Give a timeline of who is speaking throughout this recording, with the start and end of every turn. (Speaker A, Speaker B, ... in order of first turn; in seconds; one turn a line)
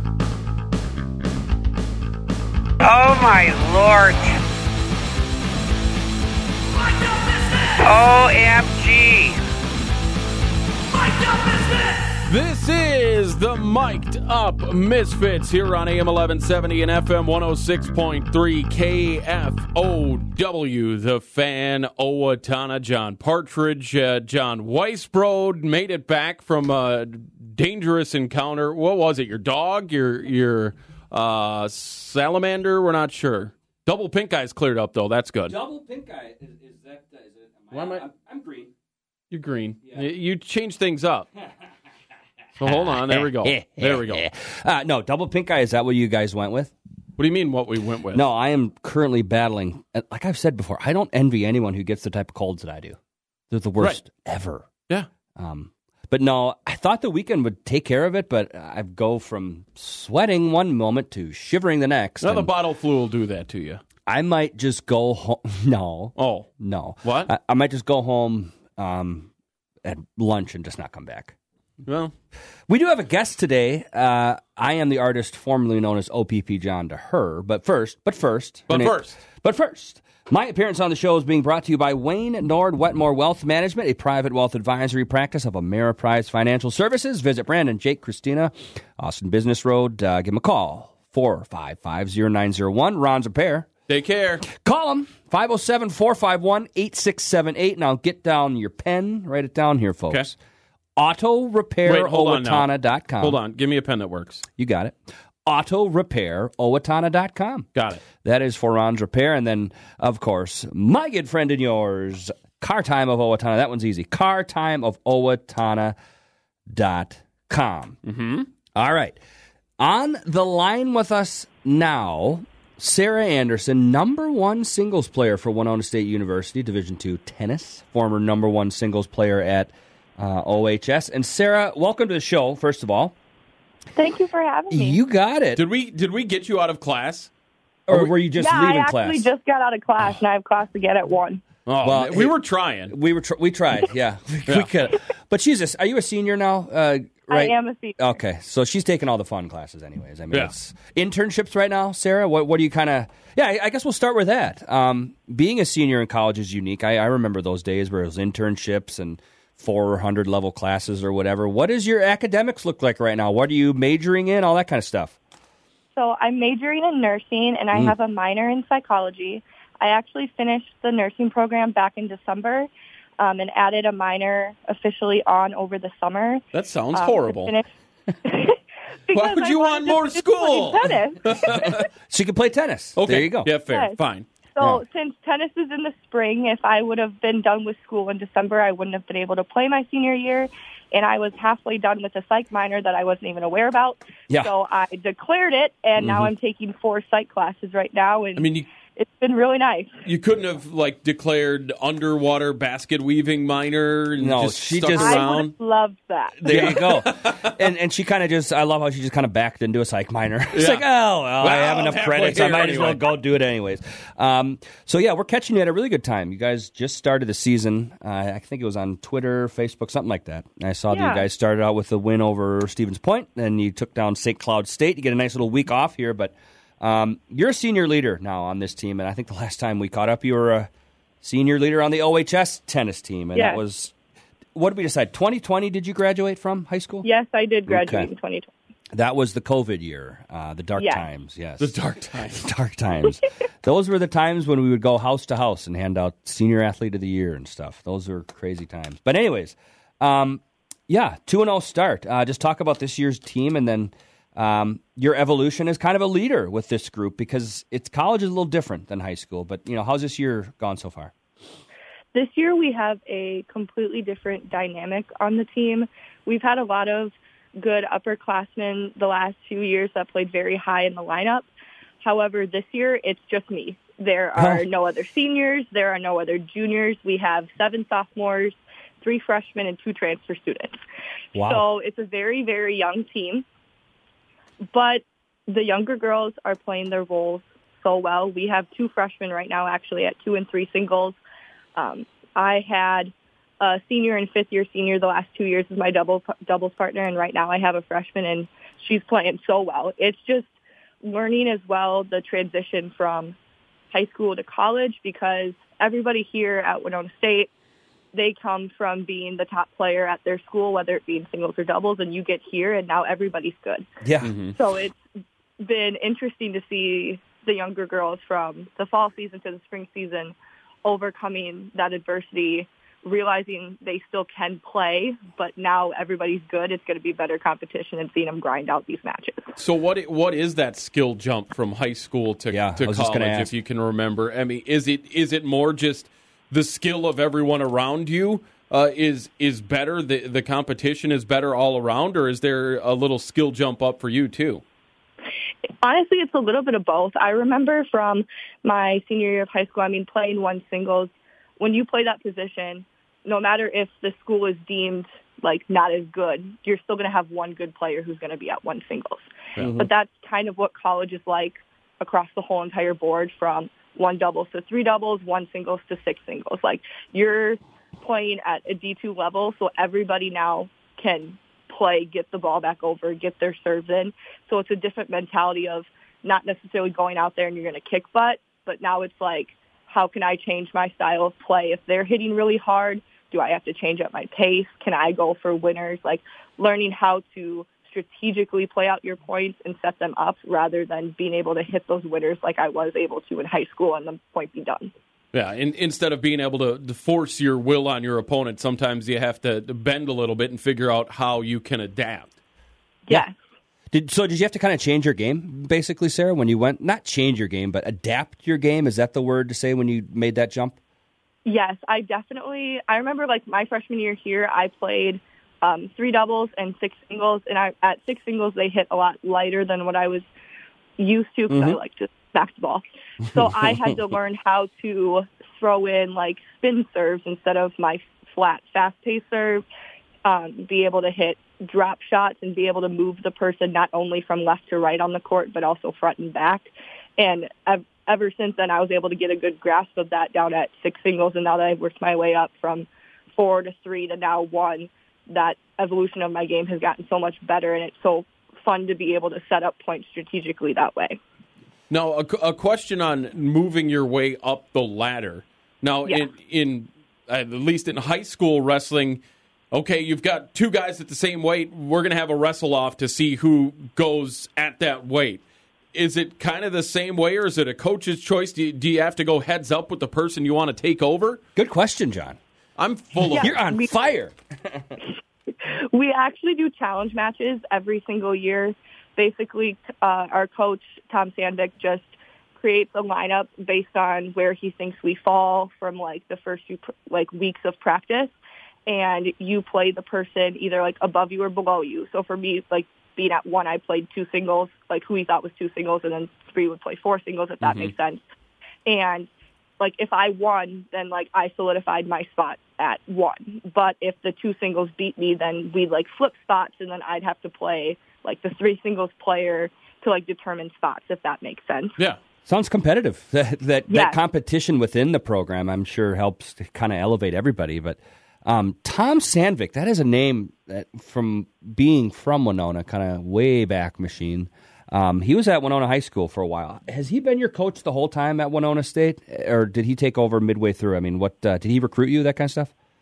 Speaker A: 2.8-4.4
Speaker A: 7.2-9.4
Speaker B: 12.2-35.6
Speaker C: 35.5-38.7
Speaker B: 37.7-38.0
Speaker B: 39.3-41.3
Speaker B: 42.6-44.2
Speaker C: 42.6-46.7
Speaker B: 47.2-48.2
Speaker C: 48.1-53.0
Speaker C: 53.5-54.7
Speaker C: 55.4-62.5
Speaker B: 62.2-63.8
Speaker C: 64.1-69.3
Speaker B: 66.2-66.5
Speaker B: 67.0-67.3
Speaker C: 69.8-71.3
Speaker B: 71.8-72.1
Speaker C: 72.7-93.7
Speaker B: 78.7-79.2
Speaker B: 93.9-94.5
Speaker C: 94.4-100.3
Speaker C: 101.0-103.4
Speaker B: 101.8-104.4
Speaker C: 104.6-116.0
Speaker B: 107.7-108.0
Speaker C: 116.7-118.0
Speaker B: 118.0-118.5
Speaker C: 118.7-119.2
Speaker C: 119.8-133.1
Speaker D: 133.9-135.0
Speaker C: 134.7-135.6
Speaker B: 135.6-137.3
Speaker C: 137.9-139.3
Speaker D: 138.4-141.4
Speaker B: 141.7-142.9
Speaker C: 141.8-142.3
Speaker C: 142.9-165.2
Speaker D: 147.3-148.2
Speaker D: 165.9-177.7
Speaker B: 176.5-177.5
Speaker D: 178.2-181.8
Speaker B: 179.1-181.8
Speaker C: 181.5-183.5
Speaker B: 183.0-184.2
Speaker D: 183.7-184.0
Speaker D: 184.5-199.9
Speaker C: 196.0-196.3
Speaker B: 198.4-198.7
Speaker B: 200.0-205.5
Speaker C: 204.2-205.2
Speaker D: 204.9-206.7
Speaker C: 206.4-230.7
Speaker B: 206.5-207.5
Speaker B: 210.5-213.1
Speaker D: 220.9-221.2
Speaker C: 231.2-233.9
Speaker D: 233.3-233.6
Speaker C: 234.5-237.1
Speaker D: 237.0-238.5
Speaker C: 237.7-238.1
Speaker C: 238.9-261.1
Speaker D: 240.8-241.0
Speaker B: 241.6-242.4
Speaker D: 262.1-271.5
Speaker D: 272.0-280.8
Speaker C: 274.4-274.6
Speaker C: 281.3-281.6
Speaker D: 281.4-283.4
Speaker D: 284.7-291.2
Speaker D: 291.8-303.4
Speaker D: 303.9-307.5
Speaker D: 308.1-313.9
Speaker C: 314.0-314.3
Speaker B: 314.2-314.5
Speaker D: 314.5-315.0
Speaker D: 315.6-329.6
Speaker B: 329.6-344.6
Speaker C: 332.5-333.5
Speaker D: 345.8-394.9
Speaker C: 359.6-359.9
Speaker B: 395.3-402.3
Speaker D: 403.1-403.3
Speaker C: 403.9-410.8
Speaker D: 411.4-420.2
Speaker D: 421.0-429.6
Speaker C: 421.5-421.8
Speaker C: 423.4-423.9
Speaker D: 430.2-451.2
Speaker B: 451.9-465.4
Speaker B: 465.9-471.4
Speaker C: 471.6-472.4
Speaker B: 472.8-473.6
Speaker D: 473.2-473.9
Speaker C: 473.3-474.8
Speaker D: 475.6-488.3
Speaker D: 488.9-498.2
Speaker B: 497.6-497.9
Speaker D: 498.9-499.3
Speaker D: 499.8-512.0
Speaker C: 512.5-532.7
Speaker D: 513.9-514.2